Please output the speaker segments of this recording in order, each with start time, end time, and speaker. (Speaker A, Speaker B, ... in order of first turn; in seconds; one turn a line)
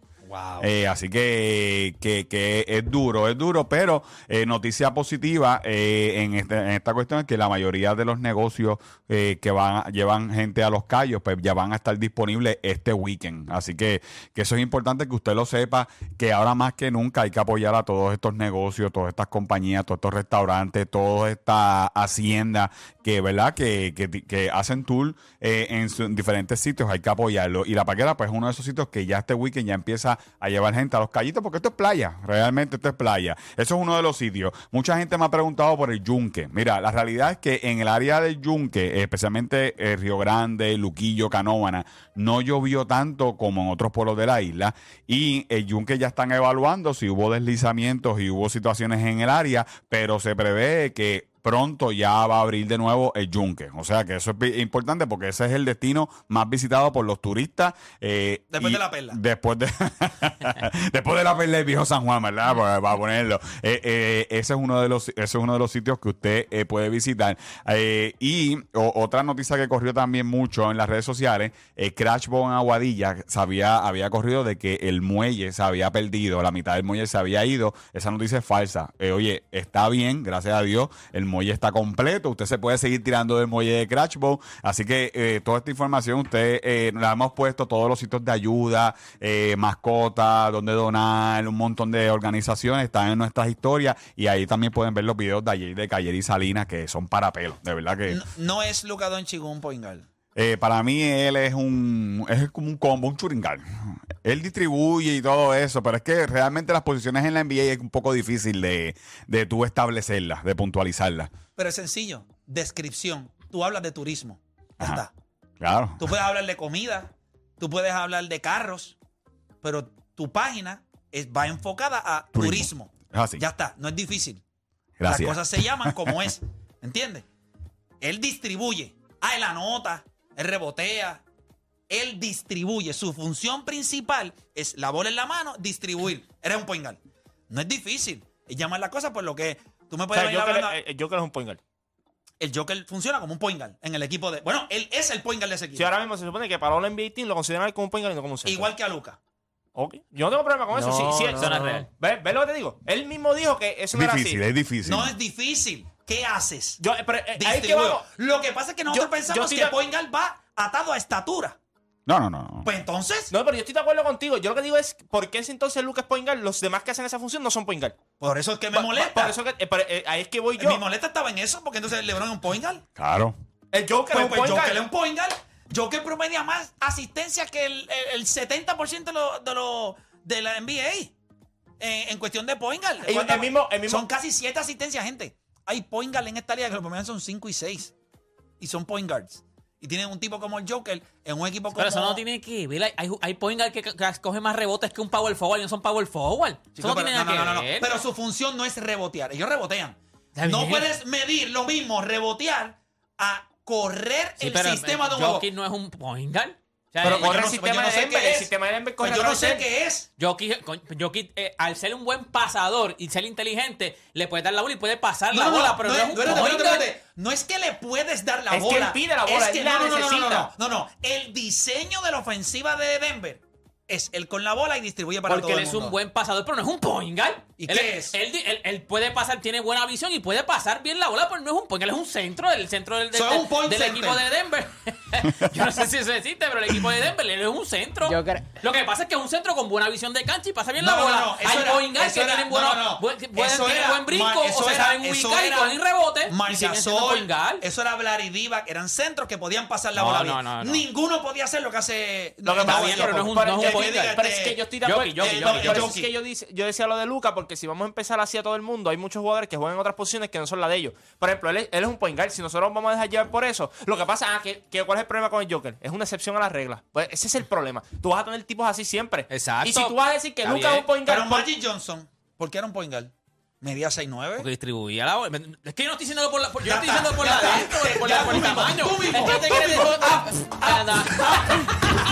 Speaker A: 0.3-0.7
Speaker B: 0.6-98.2
Speaker A: 58.5-59.2
Speaker A: 98.1-100.1
Speaker B: 100.4-111.3
Speaker A: 111.6-115.1
Speaker B: 115.6-116.0
Speaker A: 116.0-119.0
Speaker A: 119.6-124.4
Speaker B: 122.3-123.4
Speaker B: 125.0-126.2
Speaker A: 125.1-127.3
Speaker A: 128.0-131.2
Speaker A: 131.9-140.8
Speaker C: 140.1-141.6
Speaker A: 142.4-145.9
Speaker C: 145.8-148.7
Speaker A: 148.4-149.2
Speaker C: 149.8-154.4
Speaker D: 150.8-151.9
Speaker B: 153.9-155.1
Speaker A: 154.8-156.8
Speaker C: 156.8-158.1
Speaker A: 157.3-161.6
Speaker C: 158.9-159.8
Speaker B: 162.1-162.7
Speaker A: 162.7-163.3
Speaker C: 163.3-168.0
Speaker A: 168.2-169.3
Speaker C: 168.7-170.8
Speaker A: 170.6-172.8
Speaker B: 173.0-173.4
Speaker C: 173.7-174.8
Speaker A: 174.1-181.1
Speaker A: 181.8-187.9
Speaker C: 183.0-184.1
Speaker A: 188.6-192.2
Speaker D: 191.7-198.0
Speaker A: 196.8-205.5
Speaker D: 200.3-200.9
Speaker D: 204.4-207.4
Speaker C: 207.0-209.7
Speaker A: 207.0-210.1
Speaker D: 210.2-216.9
Speaker A: 215.3-226.0
Speaker C: 218.5-220.5
Speaker D: 225.3-247.6
Speaker A: 227.6-228.2
Speaker A: 233.1-234.2
Speaker A: 240.8-254.6
Speaker D: 249.9-250.8
Speaker C: 252.4-271.5
Speaker D: 252.6-254.2
Speaker D: 254.8-255.9
Speaker A: 255.2-256.1
Speaker D: 269.3-270.9
Speaker A: 271.0-274.5
Speaker D: 274.4-281.9
Speaker A: 276.6-281.7